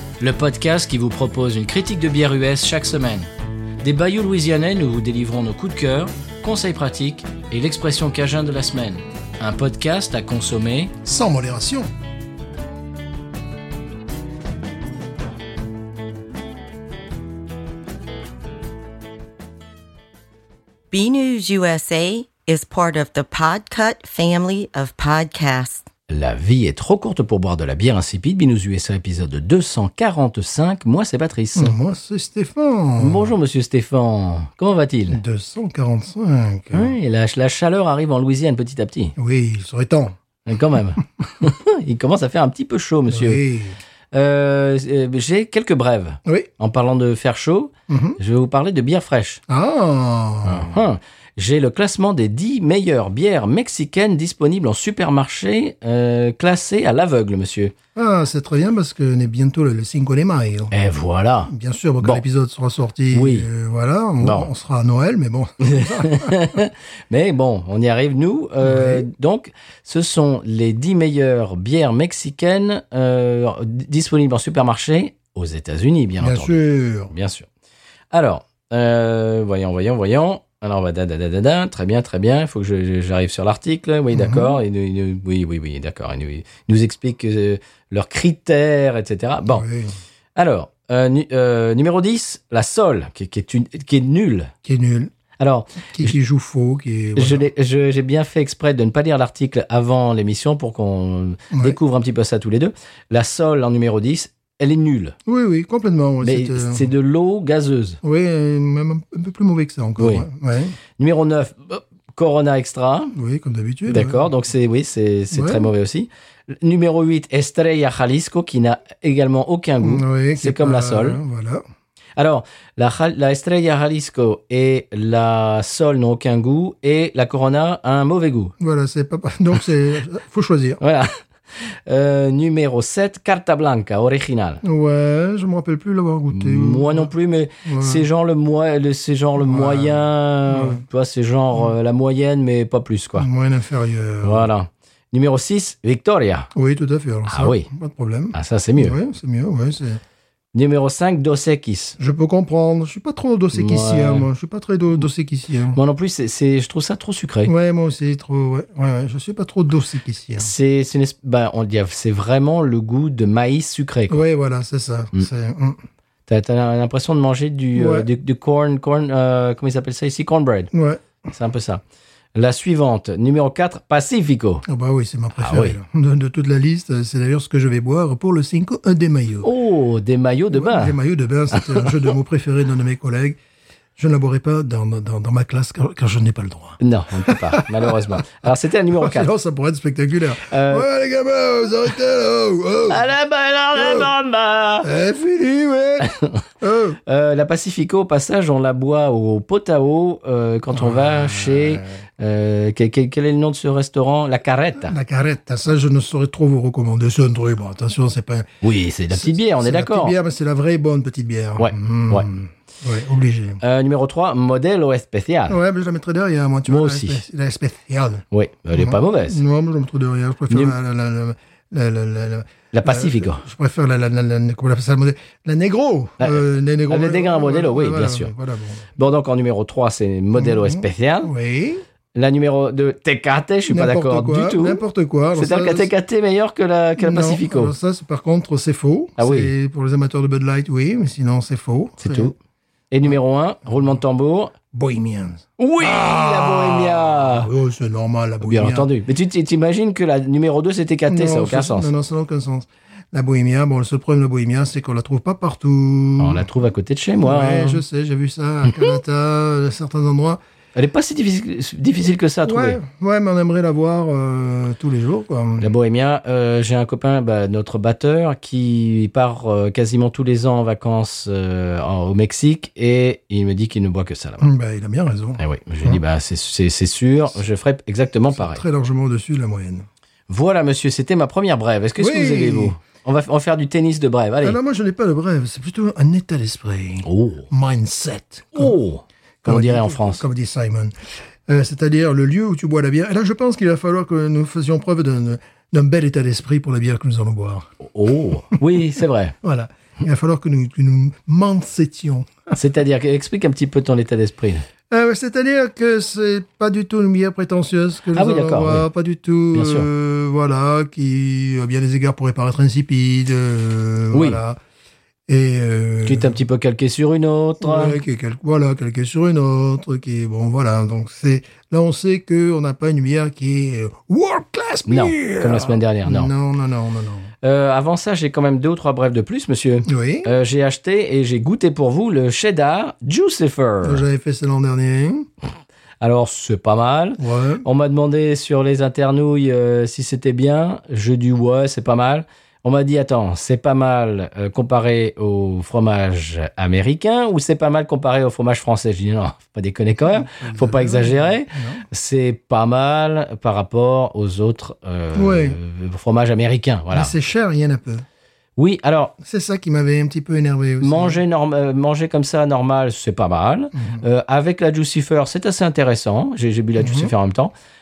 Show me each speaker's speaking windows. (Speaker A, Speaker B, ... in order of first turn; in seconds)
Speaker A: 0.2-3.3, 3.8-11.0, 26.1-31.8, 33.0-35.2, 36.7-39.1, 40.5-43.4, 44.1-49.4, 50.5-57.7, 60.7-62.2, 63.1-63.5, 64.2-64.5, 65.6-76.6, 77.1-77.5, 78.1-89.6, 90.4-94.5, 95.4-96.1, 97.2-105.2, 106.2-108.0, 110.0-110.3, 111.0-113.1, 113.9-121.2, 122.2-128.5, 130.8-134.6, 136.3-143.3, 144.2-146.5, 147.3-147.7, 148.3-148.9, 150.5-152.0, 153.5-154.3, 155.7-157.5, 160.4-164.2, 166.3-170.7, 171.3-171.8, 172.3-174.6, 175.4-175.8, 179.4-181.0, 181.5-182.0, 186.8-189.3, 190.4-190.9, 192.9-194.9, 196.0-196.4, 197.1-204.9, 208.6-210.1, 211.6-212.3, 213.6-215.6, 216.7-217.2, 218.3-219.4, 220.5-220.8, 222.7-223.4, 226.2-228.3, 229.0-231.3, 232.1-234.8, 235.3-237.7, 239.2-239.5, 242.0-242.3, 242.9-244.5, 245.6-247.5, 248.4-251.9, 256.2-257.8, 260.8-262.8, 265.6-274.5, 275.4-278.6, 280.3-284.6, 287.0-287.5, 288.5-290.2, 297.8-299.3, 302.5-304.6, 308.1-308.9, 309.5-309.9, 314.1-314.4, 316.0-318.0, 324.9-326.3, 327.4-334.0, 336.0-357.1, 358.6-359.1, 360.8-367.5
Speaker B: 11.1-11.9, 31.6-33.3, 35.1-37.0, 39.2-40.2, 43.1-43.8, 47.9-48.2, 49.5-50.8, 58.0-60.7, 61.5-66.5, 68.6-69.1, 76.2-77.1, 84.1-84.6, 89.5-90.0, 94.6-95.1, 95.9-97.5, 101.5-101.8, 105.3-106.9, 108.0-110.8, 113.1-114.3, 115.3-115.7, 119.8-121.6, 128.6-130.8, 134.6-137.1, 137.6-138.1, 139.4-140.8, 143.2-144.5, 146.6-150.0, 152.0-155.8, 157.4-160.5, 164.1-165.8, 167.8-168.1, 170.7-171.2, 174.6-179.5, 180.5-183.4, 183.9-188.2, 188.9-193.1, 193.8-194.1, 194.8-196.1, 196.6-197.0, 200.7-202.0, 204.8-208.5, 209.1-213.6, 215.5-228.9, 230.3-231.8, 233.7-235.9, 237.0-242.3, 244.7-248.9, 251.1-256.5, 257.2-260.4, 262.4-265.7, 274.4-276.0, 278.3-279.9, 282.0-282.8, 284.4-288.8, 289.4-290.9, 291.5-297.7, 299.4-302.5, 304.9-314.6, 315.3-316.4, 317.6-327.3, 329.9-330.3, 333.8-335.3, 337.2-337.6, 350.0-351.8, 355.1-355.6, 356.9-358.0, 359.2-361.2, 363.7-364.0, 366.8-367.1
Speaker C: 20.9-25.9